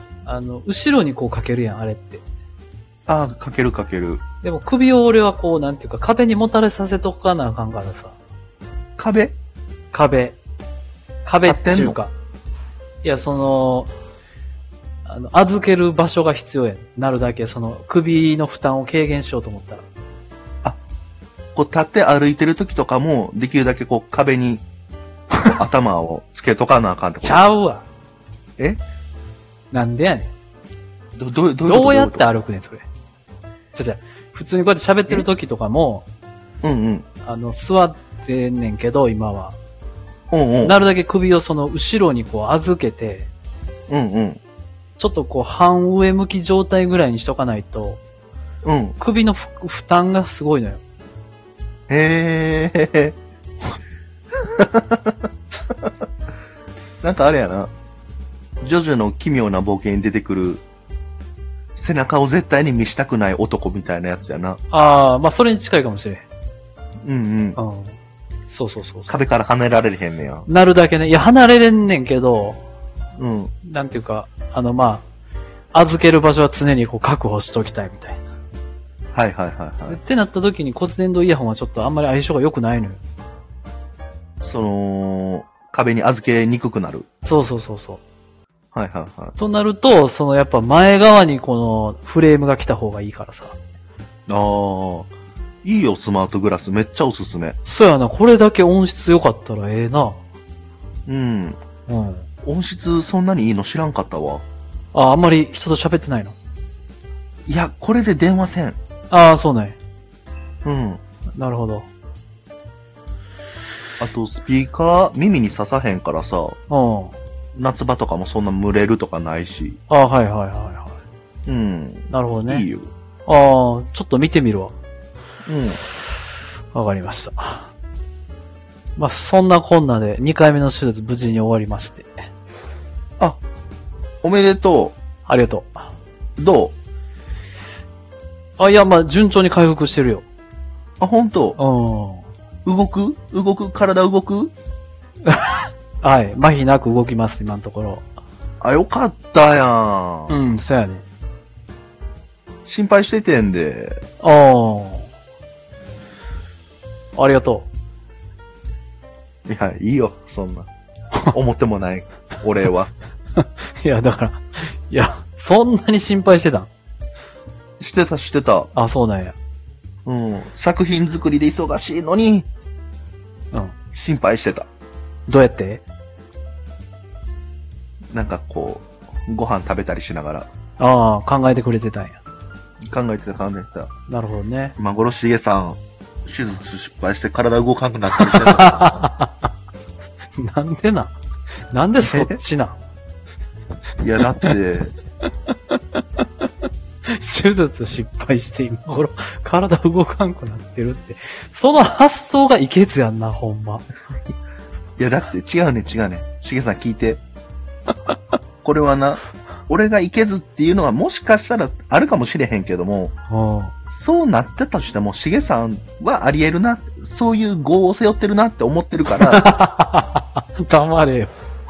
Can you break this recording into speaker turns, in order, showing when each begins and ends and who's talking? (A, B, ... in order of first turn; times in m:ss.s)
0:00.2-0:02.2 A
0:03.1-0:04.2 B
0:04.4-0:08.2 A
0:09.0-0:09.4 B
0:09.9-0:10.4 A
0:11.2-0:12.1 A
0:11.4-0:12.0 B
0:13.0-0:13.9 A
0:15.0-0:19.8 A
0:21.6-0:24.6 B
0:25.4-0:27.5 B
0:27.2-0:27.8 A
0:29.7-0:30.3 A
0:31.2-0:32.3 B
0:31.6-0:32.9 A
0:33.7-0:36.1 A
0:36.6-0:37.1 B
0:37.2-0:39.6 A
0:40.3-0:40.8 B
0:40.6-0:43.3 A
0:43.9-0:44.4 B
0:45.0-0:48.0 A
0:48.6-0:49.0 B
0:49.0-0:50.8 A
0:51.9-0:53.2 B
0:54.4-0:55.2 B
0:57.0-0:57.7 B
0:58.6-1:00.6 B
1:01.8-1:04.6 B
1:04.7-1:06.3 A
1:07.0-1:07.6 B
1:07.6-1:09.2 A
1:09.1-1:10.5 B
1:10.5-1:12.6 A
1:13.2-1:13.5 B
1:13.6-1:15.0 A
1:15.7-1:18.2 A
1:19.1-1:20.0 B
1:19.9-1:23.0 A
1:24.4-1:27.1 B
1:27.2-1:28.0 A
1:28.7-1:29.4 B
1:29.4-1:33.6 A
1:34.3-1:35.1 B
1:35.6-1:37.6 B
1:37.6-1:40.2 A
1:41.1-1:41.6 B
1:41.9-1:42.3 A
1:42.4-1:44.4 B
1:44.9-1:46.4 A
1:47.5-1:48.8 B
1:49.1-1:49.8 A
1:50.6-1:51.0 B
1:51.3-1:51.9 A
1:54.0-1:56.6 B
1:56.7-1:57.2 A
1:57.6-1:59.8 B
1:59.9-2:01.0 A
2:01.5-2:02.9 B
2:02.1-2:02.7 A
2:03.3-2:04.7 A
2:05.5-2:05.8 B
2:06.7-2:07.7 A
2:09.0-2:12.3 A
2:14.2-2:15.0 B
2:15.3-2:15.9 A
2:16.4-2:16.8 B
2:18.6-2:20.2 A
2:21.0-2:21.6 B
2:21.6-2:22.3 A
2:22.6-2:24.5 B
2:25.3-2:28.0 A
2:28.6-2:30.4 B
2:30.3-2:31.0 A
2:32.6-2:34.0 B
2:34.2-2:35.1 A
2:37.2-2:37.7 A
2:39.5-2:40.7 B
2:41.3-2:42.9 B
2:43.4-2:46.7 A
2:47.8-2:48.7 B
2:48.8-2:49.4 A
2:50.1-2:52.5 B
2:53.9-2:54.7 B
2:55.3-2:55.8 A
2:58.1-3:00.5 B
3:00.8-3:02.2 A
3:02.9-3:03.9 B
3:04.1-3:04.8 A
3:04.8-3:09.1 B
3:08.2-3:09.3 A
3:10.4-3:11.2 A
3:11.7-3:12.8 A
3:12.0-3:12.4 B
3:14.0-3:14.9 B
3:15.5-3:16.0 A
3:17.1-3:23.9 A
3:25.0-3:27.2 B
3:28.6-3:33.1 B
3:33.3-3:33.7 A
3:33.9-3:39.5 B
3:39.2-3:41.4 A